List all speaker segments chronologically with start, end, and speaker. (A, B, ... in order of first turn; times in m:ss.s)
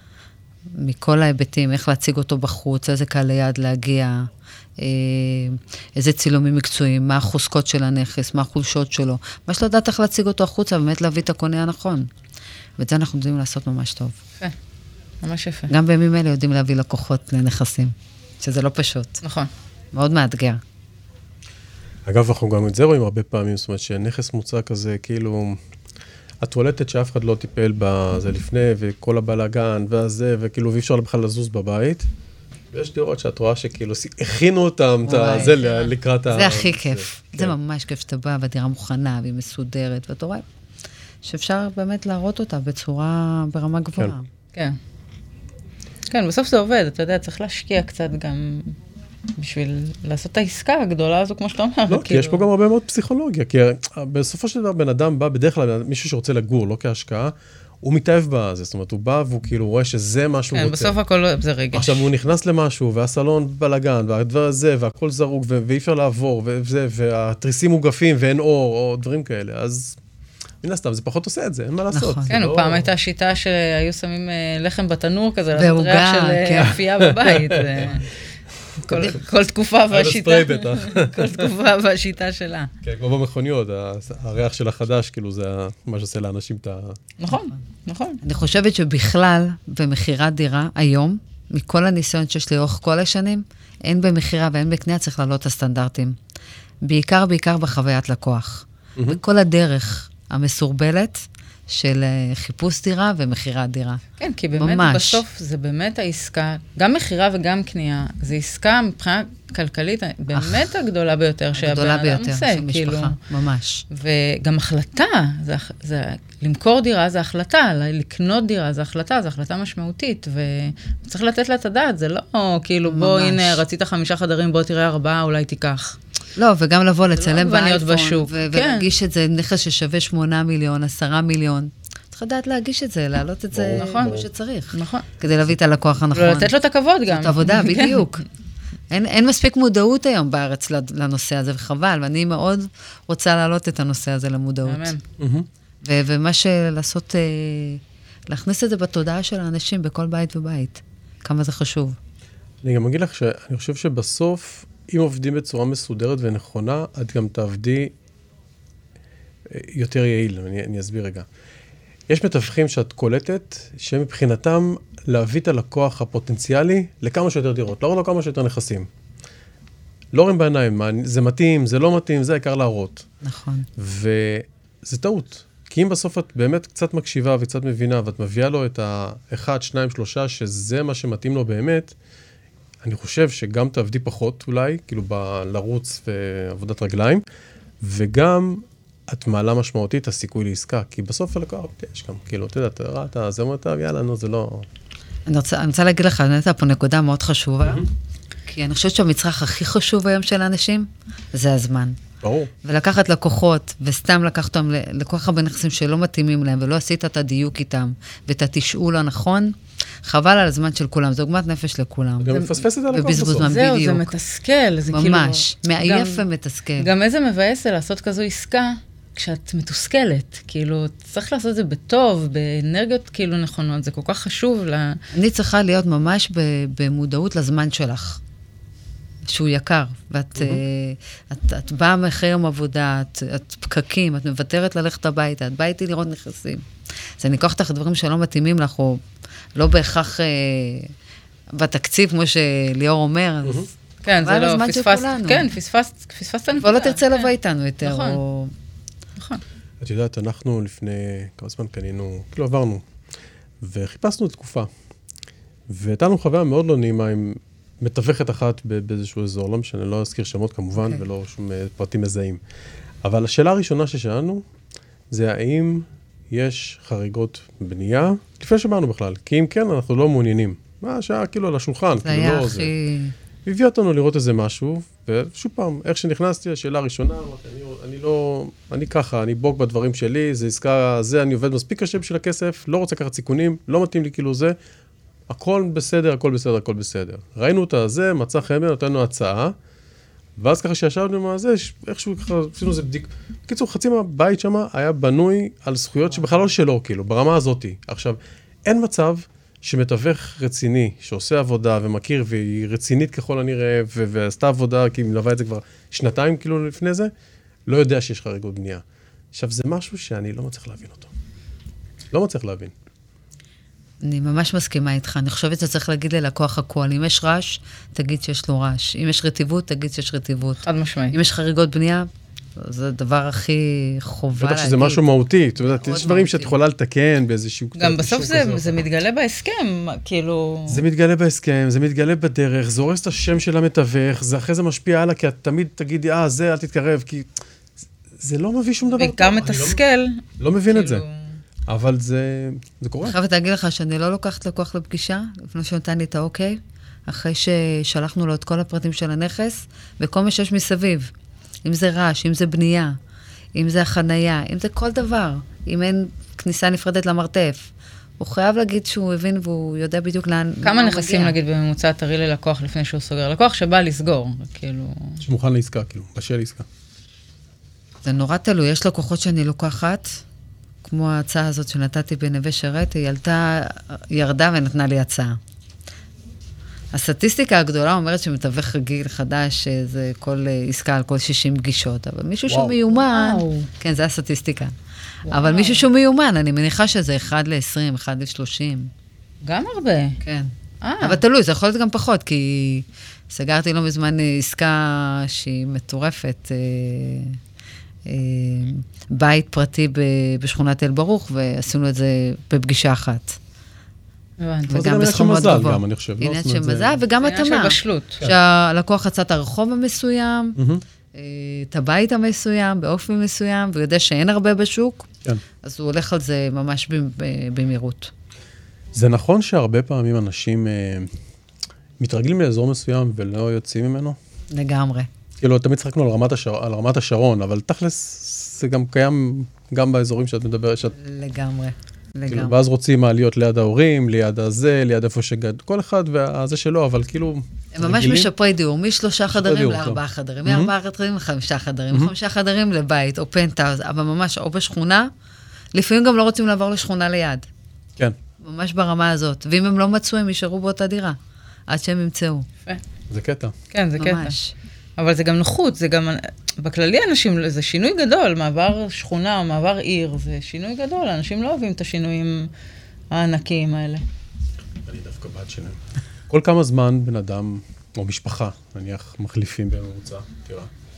0:00.7-0:12.1 A
0:12.8-0:14.2 A
0:15.2-0:15.7 B
0:15.7-0:19.2 A
0:19.2-0:19.5 B
0:19.9-0:20.6 A
0:22.1-0:25.6 C
0:26.4-0:32.1 C
0:32.7-0:37.6 C
0:35.0-0:40.4 A
0:41.2-0:44.3 A
0:46.1-0:48.8 B
0:49.4-0:52.4 B
0:51.9-1:01.0 C
1:00.5-1:02.1 B
1:01.7-1:10.0 C
1:10.6-1:12.9 C
1:11.9-1:12.4 A
1:12.3-1:18.1 B
1:15.6-1:16.8 A
1:16.7-1:18.0 C
1:18.8-1:22.7 B
1:19.9-1:21.5 C
1:22.8-1:27.0 C
1:27.2-1:28.2 B
1:27.3-1:27.6 A
1:28.2-1:36.2 A
1:36.8-1:44.0 A
1:44.2-1:53.2 B
1:44.6-1:45.2 A
1:50.4-1:50.6 A
1:51.5-1:53.8 A
1:53.9-2:06.0 B
2:02.8-2:03.6 A
2:06.4-2:16.5 A
2:07.2-2:08.9 B
2:13.5-2:14.3 C
2:13.8-2:14.2 B
2:14.7-2:15.1 B
2:16.1-2:18.0 B
2:17.1-2:18.2 A
2:18.9-2:25.0 A
2:24.7-2:25.0 B
2:25.2-2:25.5 C
2:25.8-2:32.0 A
2:32.6-2:37.9 C
2:39.5-2:41.2 C
2:42.1-2:48.9 C
2:50.1-2:53.1 C
2:53.2-2:53.7 A
2:53.8-3:01.9 C
3:02.8-3:07.2 C
3:07.8-3:14.7 C
3:15.3-3:17.9 A
3:18.5-3:22.0 A
3:22.2-3:22.5 C
3:22.6-3:34.1 A
3:32.2-3:33.5 C
3:33.4-3:36.2 B
3:34.9-3:36.9 A
3:36.8-3:45.0 B
3:45.1-3:48.2 A
3:49.3-3:56.7 A
3:50.4-3:50.6 C
3:57.2-3:59.0 A
3:59.6-4:00.9 A
4:01.5-4:03.7 A
4:04.0-4:07.3 B
4:04.2-4:05.5 A
4:06.6-4:08.5 A
4:07.8-4:08.2 B
4:09.8-4:12.8 C
4:13.6-4:14.7 C
4:15.7-4:22.4 C
4:23.0-4:24.4 C
4:25.1-4:32.7 C
4:32.0-4:33.2 A
4:33.4-4:44.6 C
4:45.3-4:49.6 C
4:50.4-5:07.1 C
5:07.7-5:11.1 C
5:12.1-5:12.7 C
5:14.0-5:25.0 A
5:20.6-5:21.2 B
5:24.4-5:28.8 C
5:25.6-5:26.6 A
5:27.8-5:30.8 B
5:30.7-5:37.3 C
5:38.2-5:39.8 C
5:38.9-5:41.4 B
5:40.4-5:41.0 C
5:41.7-5:43.2 C
5:43.0-5:51.1 A
5:51.6-5:53.0 A
5:53.6-6:01.4 A
6:00.6-6:05.2 B
6:05.2-6:06.7 C
6:08.0-6:10.2 A
6:10.9-6:15.4 A
6:16.9-6:24.7 A
6:22.5-6:22.8 C
6:22.9-6:23.7 B
6:25.2-6:25.8 B
6:25.3-6:28.9 A
6:29.4-6:30.2 B
6:30.2-6:37.4 A
6:30.8-6:31.2 B
6:38.1-6:43.4 A
6:44.4-6:44.9 B
6:44.7-6:50.6 A
6:44.7-6:47.0 C
6:47.2-6:48.2 B
6:50.6-6:50.8 C
6:51.1-6:55.1 A
6:55.6-6:58.1 A
6:59.0-7:01.2 C
7:02.0-7:04.2 C
7:04.5-7:05.1 A
7:05.4-7:11.0 C
7:11.0-7:12.6 A
7:12.3-7:18.3 C
7:17.7-7:25.1 A
7:19.3-7:20.7 C
7:25.7-7:27.5 A
7:28.4-7:32.5 A
7:33.1-7:33.6 C
7:33.7-7:34.4 B
7:34.0-7:34.5 A
7:35.0-7:42.5 B
7:43.1-7:44.0 B
7:44.8-7:45.8 C
7:46.3-7:50.7 C